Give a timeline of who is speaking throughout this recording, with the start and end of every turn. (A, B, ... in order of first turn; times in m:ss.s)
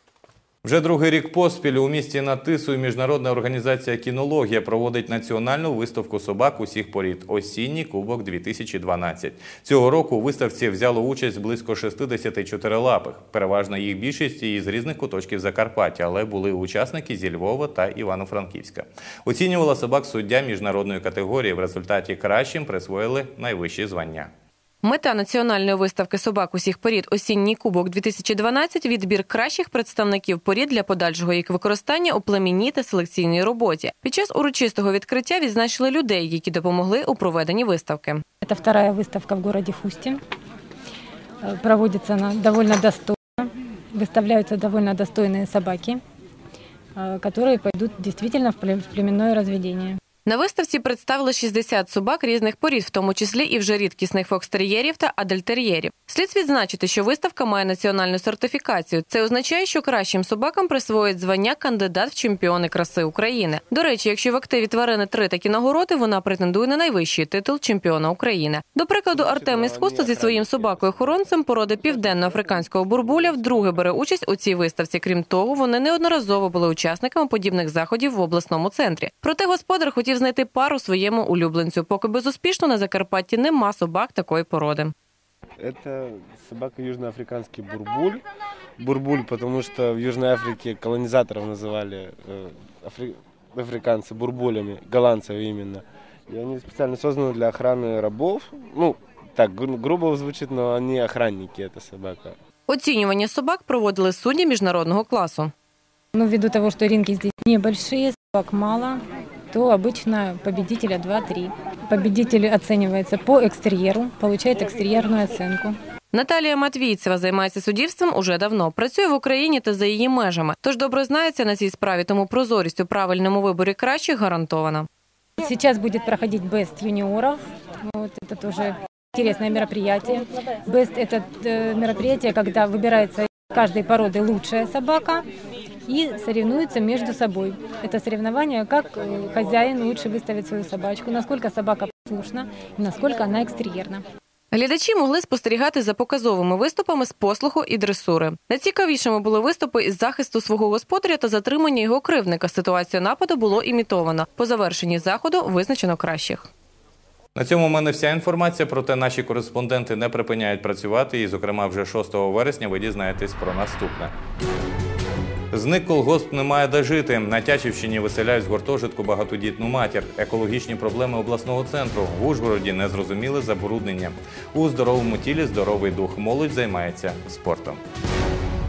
0:00.6-0:24.3 A
0:24.8-0:38.2 B
0:38.4-0:40.2 C
0:41.4-0:46.0 C
0:47.0-0:50.0 C
0:50.2-1:24.9 B
1:09.1-1:13.5 D
1:25.6-1:28.2 D
1:28.8-1:42.4 D
1:42.7-1:45.5 B
1:46.1-1:55.8 C
1:56.1-2:04.9 B
2:05.4-2:15.3 C
2:15.9-2:24.0 C
2:24.5-2:36.5 B
2:37.4-2:44.1 A
2:45.5-2:57.8 A